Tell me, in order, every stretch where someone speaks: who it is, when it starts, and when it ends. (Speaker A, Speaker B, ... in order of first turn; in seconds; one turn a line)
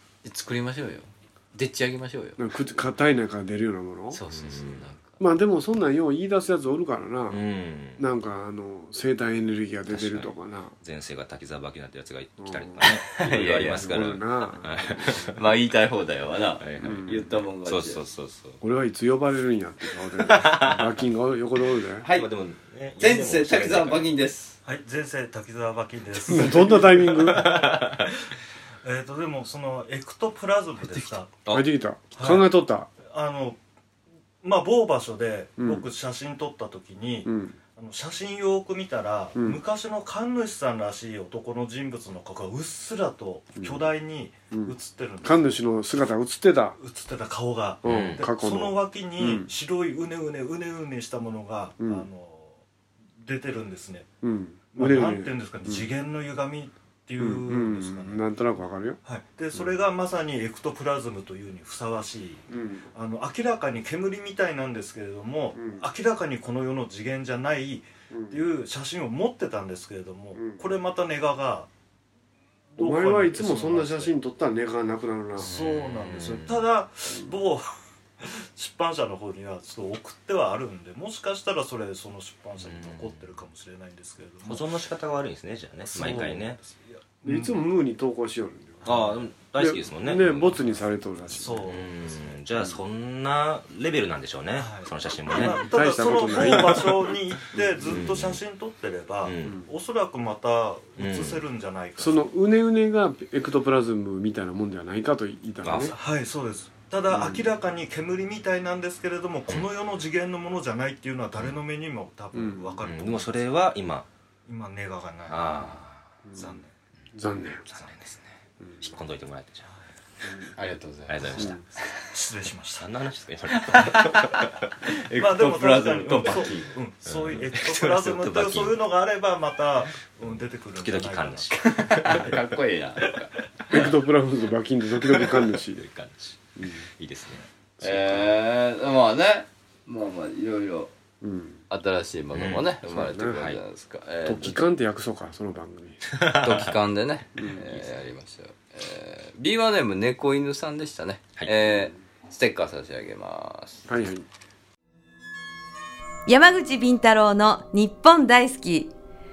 Speaker A: 0.2-2.4
Speaker B: 2.4-4.2
Speaker A: 4.1-5.2
Speaker C: 4.3-4.9
Speaker B: 5.2-7.4
Speaker C: 7.3-8.0
Speaker B: 8.0-10.8
Speaker C: 9.9-10.3
Speaker C: 10.8-15.5
Speaker B: 12.4-15.4
Speaker A: 13.2-13.9
Speaker A: 15.3-18.0
Speaker C: 16.6-17.1
Speaker B: 16.8-17.2
Speaker C: 17.6-18.6
Speaker B: 18.6-22.1
Speaker C: 20.2-20.9
Speaker A: 22.0-22.3
Speaker C: 22.1-24.1
Speaker A: 23.0-24.6
Speaker D: 24.6-28.1
Speaker B: 26.3-27.4
Speaker C: 27.3-28.1
Speaker D: 28.8-31.3
Speaker C: 30.9-31.6
Speaker B: 31.5-32.9
Speaker D: 32.1-32.5
Speaker D: 33.0-33.6
Speaker D: 34.4-45.6
Speaker B: 35.6-35.9
Speaker B: 37.2-37.6
Speaker B: 39.3-39.6
Speaker B: 43.6-43.9
Speaker B: 44.5-46.8
Speaker D: 46.8-52.6
Speaker B: 47.8-49.5
Speaker C: 47.9-48.2
Speaker B: 51.8-52.0
Speaker D: 53.2-54.1
Speaker B: 54.2-55.9
Speaker D: 54.7-58.2
Speaker B: 57.2-59.0
Speaker D: 59.0-71.7
Speaker B: 62.5-62.9
Speaker B: 65.5-65.8
Speaker B: 68.1-68.4
Speaker B: 70.3-70.6
Speaker D: 72.7-74.1
Speaker B: 72.8-75.5
Speaker D: 75.4-77.7
Speaker C: 75.4-76.6
Speaker D: 78.2-84.7
Speaker C: 82.6-83.2
Speaker C: 84.5-86.6
Speaker D: 85.9-87.7
Speaker B: 86.0-86.4
Speaker B: 87.2-88.9
Speaker D: 88.8-89.2
Speaker C: 88.8-90.6
Speaker B: 89.6-91.8
Speaker D: 91.3-92.2
Speaker C: 91.7-95.7
Speaker D: 94.6-102.2
Speaker B: 95.3-98.1
Speaker C: 96.3-96.8
Speaker C: 97.8-98.4
Speaker C: 99.2-99.5
Speaker C: 101.0-101.4
Speaker B: 102.0-105.9
Speaker C: 105.6-105.9
Speaker D: 105.9-113.4
Speaker B: 107.1-107.5
Speaker B: 112.3-112.8
Speaker C: 112.8-114.1
Speaker D: 114.5-115.5
Speaker C: 115.3-116.2
Speaker B: 116.2-116.6
Speaker D: 116.3-116.7
Speaker B: 117.1-117.7
Speaker C: 117.7-119.7
Speaker B: 120.2-120.5
Speaker A: 120.5-122.0
Speaker C: 121.1-121.6
Speaker B: 121.3-121.6
Speaker D: 122.1-122.9
Speaker C: 122.7-124.7
Speaker A: 123.5-126.7
Speaker D: 125.2-131.5
Speaker C: 127.0-128.8
Speaker C: 130.8-133.1
Speaker A: 131.5-133.3
Speaker B: 133.7-135.8
Speaker C: 135.0-138.3
Speaker B: 136.6-136.8
Speaker A: 137.8-140.9
Speaker B: 141.2-141.6
Speaker A: 141.7-144.6
Speaker C: 142.3-142.7
Speaker B: 142.9-143.4
Speaker B: 144.2-146.0
Speaker C: 146.1-146.7
Speaker A: 146.4-153.8
Speaker B: 147.4-147.7
Speaker B: 151.7-152.0
Speaker B: 153.9-154.2
Speaker E: 156.3-158.9